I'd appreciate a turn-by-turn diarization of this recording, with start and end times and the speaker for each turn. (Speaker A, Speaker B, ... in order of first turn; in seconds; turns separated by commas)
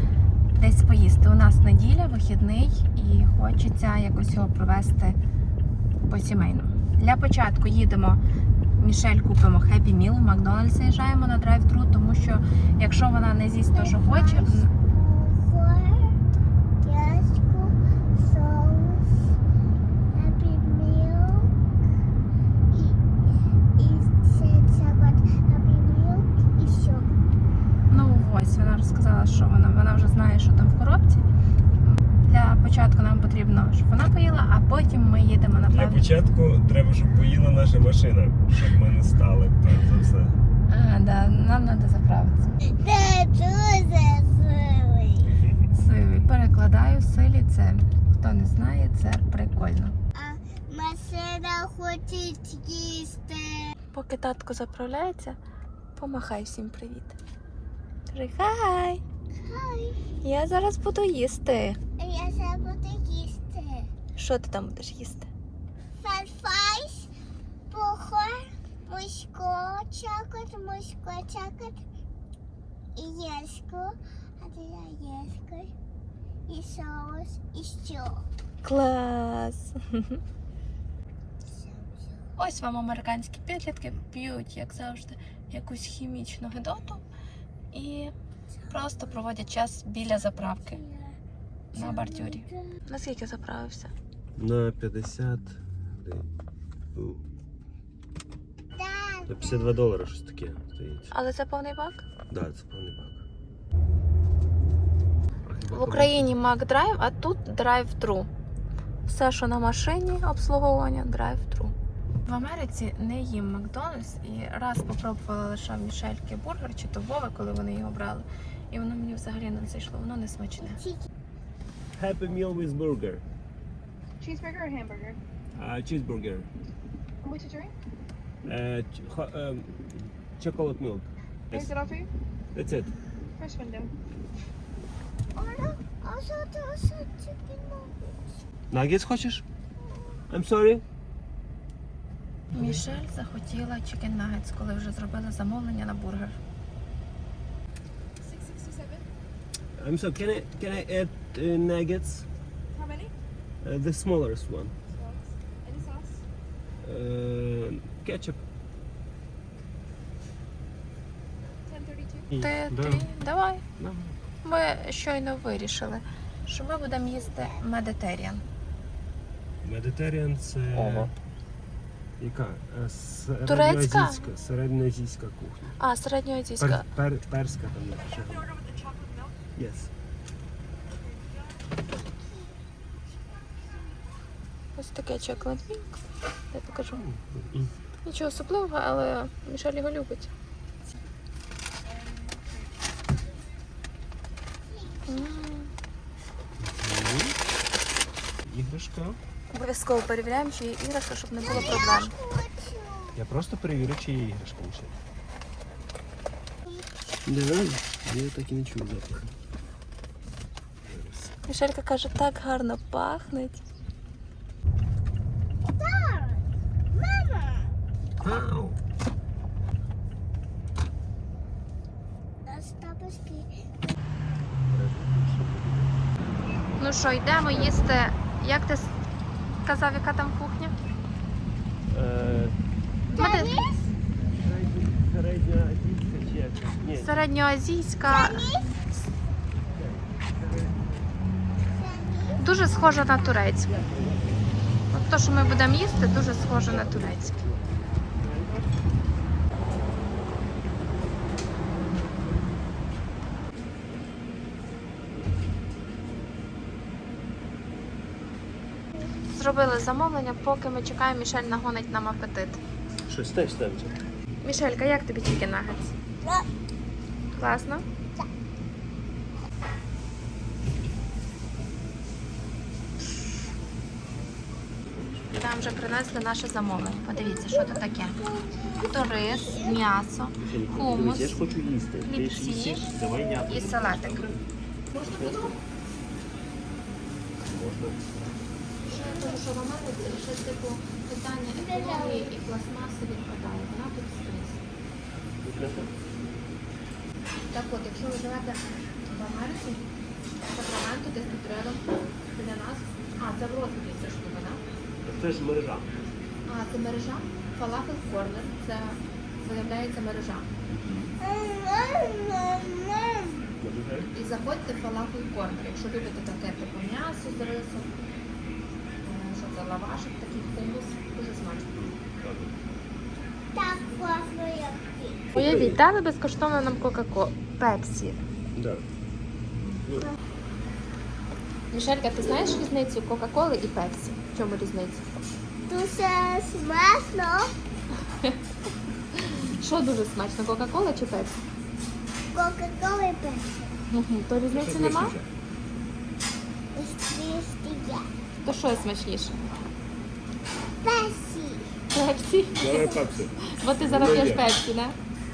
Speaker A: 0.5-5.2, Speaker A: 6.1-8.2, Speaker A: 8.8-14.7, Speaker B: 13.7-16.1, Speaker B: 16.8-19.3, Speaker B: 20.1-21.5, Speaker B: 22.7-27.1, Speaker A: 27.9-31.2, Speaker A: 32.2-36.0, Speaker C: 35.7-40.4, Speaker A: 40.7-42.6, Speaker B: 42.7-45.3, Speaker C: 45.2-45.7, Speaker A: 45.7-50.0, Speaker B: 50.1-53.7, Speaker A: 53.9-55.4, Speaker A: 56.0-57.1, Speaker A: 58.1-59.0, Speaker B: 59.4-60.0, Speaker A: 60.2-61.8, Speaker B: 62.0-63.9, Speaker A: 64.2-65.3, Speaker B: 66.0-67.1, Speaker B: 67.7-71.8, Speaker B: 73.0-75.7, Speaker B: 76.5-78.2, Speaker A: 78.6-80.2, Speaker B: 81.4-82.3, Speaker A: 82.4-87.0, Speaker A: 87.7-88.1, Speaker A: 88.7-90.8, Speaker B: 90.7-91.2, Speaker B: 91.7-92.5, Speaker A: 91.7-93.9, Speaker C: 94.3-96.3, Speaker C: 96.9-97.2, Speaker B: 98.8-99.6, Speaker C: 99.3-101.1, Speaker A: 101.1-102.0, Speaker C: 102.3-103.2, Speaker C: 105.5-106.3, Speaker A: 105.7-108.3, Speaker A: 109.1-111.7, Speaker A: 112.2-120.8, Speaker B: 120.6-121.1, Speaker C: 121.9-123.2, Speaker D: 124.2-125.2, Speaker C: 125.5-126.5, Speaker D: 127.2-127.7, Speaker C: 128.4-131.7, Speaker D: 131.5-132.1, Speaker C: 132.5-132.9, Speaker D: 133.4-133.9, Speaker B: 135.3-138.4, Speaker C: 138.7-139.4, Speaker B: 139.8-140.2, Speaker C: 140.3-140.8, Speaker C: 142.5-142.8, Speaker A: 142.5-146.3, Speaker D: 148.2-149.0, Speaker C: 149.8-152.3, Speaker D: 152.7-153.1, Speaker C: 153.6-154.7, Speaker D: 154.9-156.2, Speaker C: 156.8-158.4, Speaker D: 161.7-162.3, Speaker C: 162.3-163.1, Speaker A: 162.4-163.6, Speaker C: 163.8-164.2, Speaker A: 164.4-168.4, Speaker C: 169.6-171.1, Speaker A: 170.7-171.1, Speaker C: 172.2-175.8, Speaker A: 173.4-174.2, Speaker A: 175.8-176.8, Speaker C: 176.6-178.6, Speaker C: 179.5-179.9, Speaker B: 182.0-182.5, Speaker A: 184.8-185.8, Speaker A: 186.5-187.0, Speaker C: 187.0-187.7, Speaker A: 188.0-190.3, Speaker B: 194.7-195.4, Speaker A: 195.1-195.7, Speaker C: 196.6-197.3, Speaker C: 198.4-199.2, Speaker A: 199.5-202.1, Speaker C: 201.5-201.8, Speaker B: 201.5-203.2, Speaker C: 203.1-204.9, Speaker B: 206.7-206.9, Speaker C: 207.2-209.3, Speaker C: 210.8-211.3, Speaker A: 211.4-213.6, Speaker B: 215.7-217.7, Speaker C: 218.2-218.8, Speaker B: 222.4-223.9, Speaker C: 224.6-226.0, Speaker A: 226.8-228.9, Speaker A: 229.6-230.7, Speaker C: 231.9-232.6, Speaker B: 233.1-233.8, Speaker A: 233.1-233.6, Speaker C: 234.3-237.2, Speaker A: 237.0-238.4, Speaker B: 238.0-238.8, Speaker C: 239.7-240.9, Speaker B: 241.7-242.4, Speaker A: 242.4-243.7, Speaker C: 243.7-244.4, Speaker A: 244.9-247.3, Speaker C: 246.5-248.7, Speaker A: 259.3-262.6, Speaker C: 263.1-264.0, Speaker A: 264.4-265.9, Speaker A: 267.3-267.8, Speaker C: 274.9-275.8, Speaker A: 275.4-278.2, Speaker B: 278.2-279.7, Speaker A: 278.8-281.4, Speaker C: 280.4-285.5, Speaker A: 282.0-282.9, Speaker A: 283.5-284.2, Speaker A: 284.9-285.6, Speaker C: 287.4-288.3, Speaker A: 288.8-294.6, Speaker B: 291.6-292.4, Speaker C: 295.4-295.9, Speaker A: 297.5-299.8, Speaker A: 300.5-304.6, Speaker C: 305.0-306.0, Speaker A: 306.4-310.5, Speaker C: 310.7-311.1, Speaker B: 311.2-313.5, Speaker C: 313.6-314.1, Speaker A: 314.1-317.9, Speaker A: 319.0-321.7, Speaker C: 321.7-322.6, Speaker B: 323.5-325.3, Speaker C: 325.3-325.8, Speaker A: 325.3-328.2, Speaker C: 328.5-328.8, Speaker C: 329.6-330.1, Speaker A: 331.7-335.2, Speaker B: 335.7-337.5, Speaker A: 339.2-341.4, Speaker B: 342.3-343.8, Speaker A: 343.9-345.1, Speaker C: 344.5-345.3, Speaker B: 346.7-348.1, Speaker A: 348.4-349.4, Speaker B: 350.8-351.7, Speaker A: 351.9-354.9, Speaker C: 352.6-354.4